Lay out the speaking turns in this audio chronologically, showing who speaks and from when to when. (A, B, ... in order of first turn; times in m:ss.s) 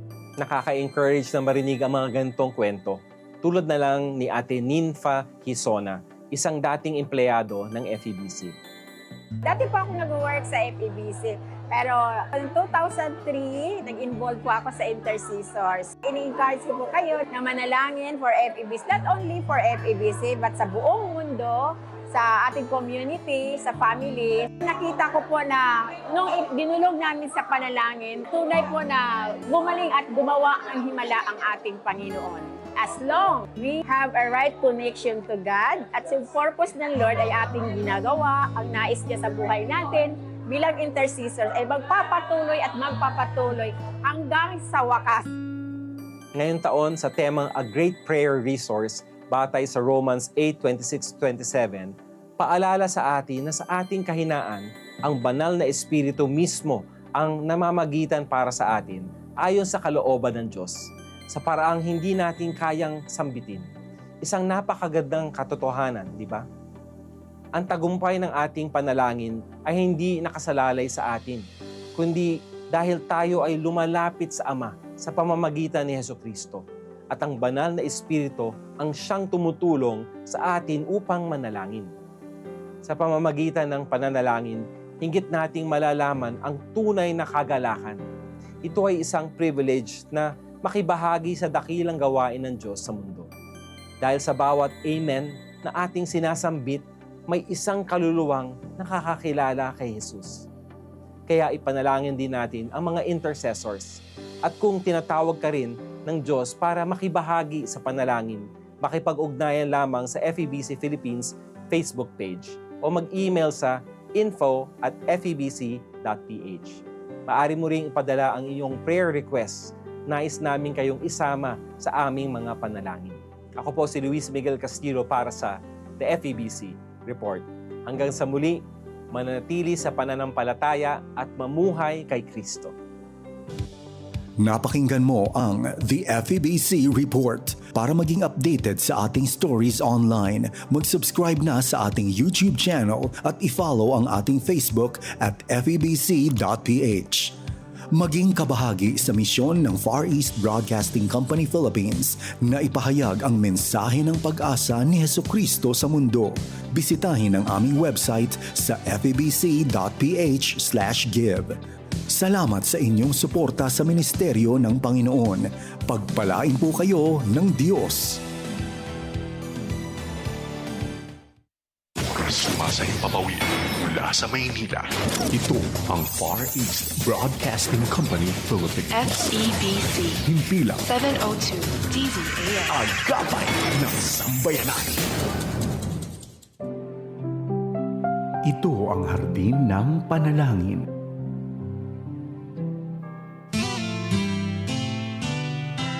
0:00.4-0:08.5 A
0:09.4-0:45.3 B
0:46.3-1:03.7 A
1:04.2-1:06.4 A
1:07.6-1:21.9 A
1:22.8-1:28.0 A
1:28.6-1:33.3 A
1:34.0-1:40.4 A
1:41.3-2:08.6 A
2:09.1-2:12.7 A
2:14.4-2:27.4 C
2:27.9-2:41.6 C
2:42.1-2:48.2 C
2:52.1-2:54.9 D
2:55.3-2:59.2 C
2:58.9-3:00.2 E
3:00.2-3:00.8 C
3:00.8-3:02.9 E
3:02.7-3:05.0 C
3:08.4-3:10.9 C